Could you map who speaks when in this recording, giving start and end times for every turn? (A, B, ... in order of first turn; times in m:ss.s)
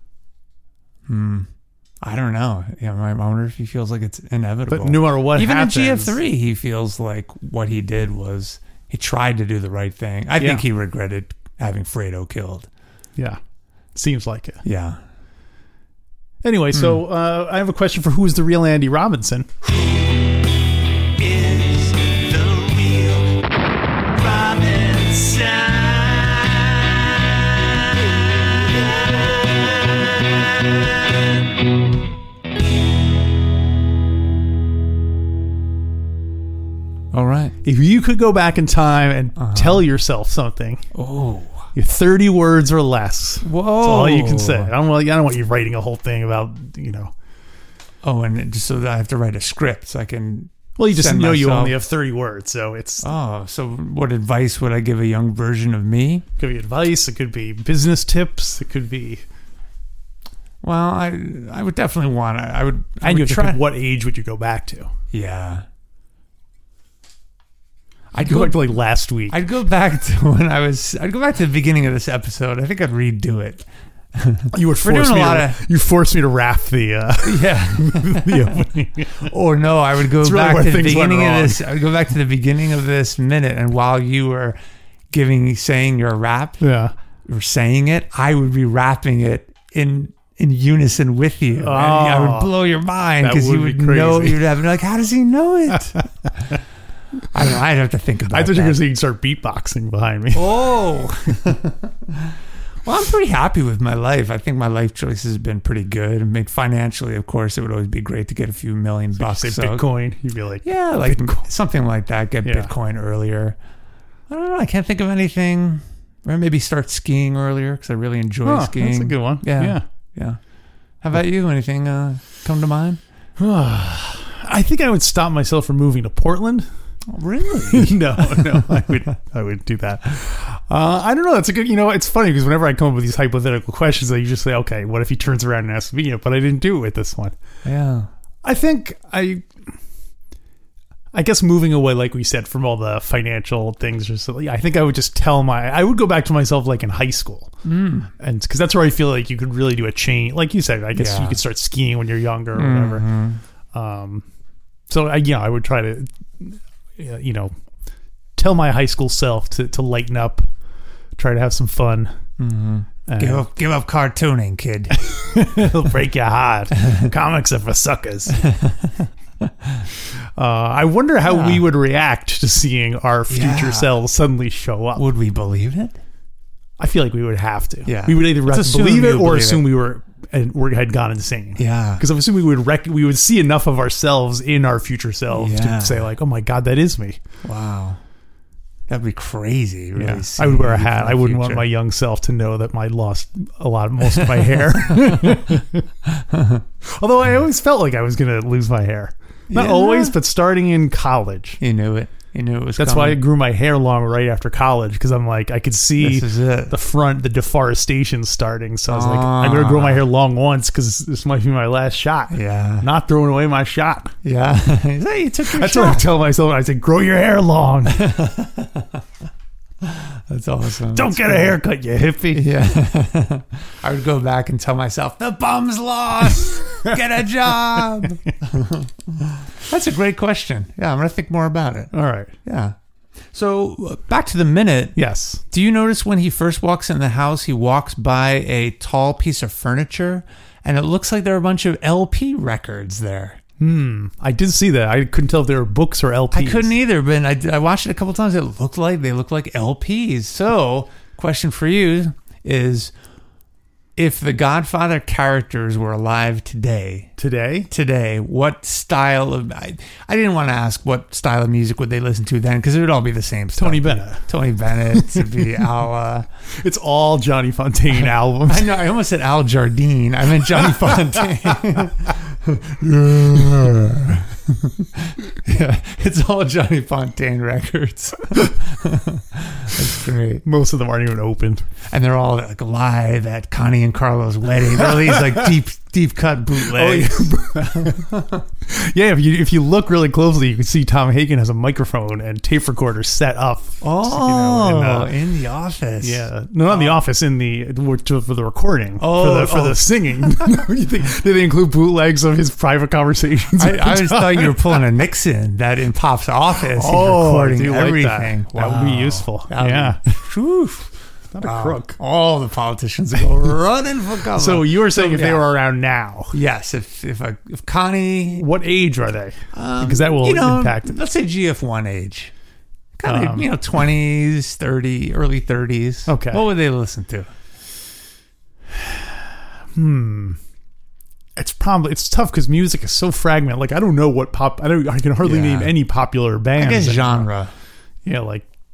0:01.1-0:01.5 A
0:02.0-0:12.7 A
0:04.7-0:06.2 B
0:10.4-0:10.6 B
0:14.0-0:14.6 B
0:14.6-0:15.0 A
0:16.4-0:19.8 B
0:16.7-0:17.0 A
0:21.2-0:23.3 A
0:24.3-0:25.6 B
0:24.5-0:25.9 A
0:37.1-0:37.5 A
0:37.6-0:40.8 B
0:39.4-0:39.8 A
0:40.9-0:41.7 A
0:41.7-0:47.1 B
0:43.4-0:44.7 A
0:48.0-0:51.8 A
0:50.8-0:53.1 B
0:53.0-0:56.2 A
0:56.4-0:59.2 B
1:00.6-1:03.6 A
1:03.0-1:04.9 B
1:05.1-1:05.6 A
1:08.1-1:08.8 A
1:08.2-1:09.4 B
1:09.3-1:15.6 A
1:14.5-1:19.3 B
1:17.2-1:18.6 A
1:19.2-1:24.6 A
1:20.1-1:21.6 B
1:25.1-1:26.6 A
1:26.6-1:26.9 B
1:27.3-1:36.1 A
1:31.6-1:32.5 B
1:33.2-1:34.5 B
1:37.3-1:38.8 A
1:38.3-1:40.8 B
1:40.3-1:42.1 A
1:42.8-1:49.8 A
1:49.2-1:51.4 B
1:50.6-1:53.6 A
1:52.4-1:52.7 B
1:54.3-2:00.4 A
1:58.4-1:59.8 B
2:01.0-2:03.0 A
2:03.4-2:06.7 B
2:07.1-2:08.8 A
2:07.7-2:17.3 B
2:17.6-2:18.1 A
2:18.4-2:19.5 B
2:21.1-2:27.5 B
2:27.6-2:28.1 A
2:28.2-2:33.1 B
2:31.0-2:31.4 A
2:32.6-2:33.4 A
2:33.7-2:34.3 B
2:34.9-2:37.5 B
2:38.4-2:40.5 B
2:41.2-2:42.1 B
2:42.4-2:45.0 A
2:43.1-2:43.4 B
2:45.0-2:48.4 B
2:48.4-2:48.9 A
2:50.4-2:55.1 B
2:51.3-2:51.7 A
2:53.3-2:53.9 A
2:55.0-2:56.0 A
2:56.8-3:07.2 B
2:57.9-2:59.6 A
3:01.6-3:02.0 A
3:05.3-3:06.1 A
3:07.4-3:08.0 A
3:08.9-3:11.7 A
3:10.0-3:15.8 B
3:14.2-3:15.4 A
3:16.3-3:16.6 A
3:16.8-3:21.6 B
3:19.5-3:20.2 A
3:21.6-3:23.2 A
3:22.8-3:34.1 B
3:26.0-3:26.7 A
3:28.9-3:30.0 A
3:32.3-3:32.9 A
3:34.2-3:36.1 A
3:35.5-3:38.1 B
3:37.9-3:39.0 A
3:39.8-3:41.6 A
3:40.9-3:42.5 B
3:42.3-3:51.9 A
3:51.9-3:52.3 B
3:52.4-3:52.8 A
3:53.3-3:55.0 A
3:55.0-3:55.4 B
3:55.5-4:03.4 A
4:03.6-4:06.7 B
4:06.3-4:12.9 A
4:14.0-4:17.1 A
4:17.2-4:17.7 B
4:17.7-4:26.3 A
4:23.6-4:24.2 B
4:25.0-4:25.3 B
4:26.6-4:28.8 B
4:27.9-4:40.4 A
4:40.4-4:41.7 B
4:41.9-4:48.1 A
4:46.6-4:55.2 B
4:53.8-4:57.0 A
4:56.0-5:04.8 B
4:59.0-4:59.8 A
5:03.6-5:15.5 A
5:06.6-5:10.1 B
5:11.3-5:12.0 B
5:14.4-5:16.4 B
5:16.3-5:18.4 A
5:18.4-5:21.0 B
5:19.5-5:22.3 A
5:23.0-5:27.3 A
5:23.0-5:23.5 B
5:26.1-5:26.4 B
5:28.8-5:29.2 B
5:29.8-5:30.4 B
5:31.4-5:37.3 B
5:35.2-5:35.8 A
5:36.6-5:37.5 A
5:38.0-5:38.5 B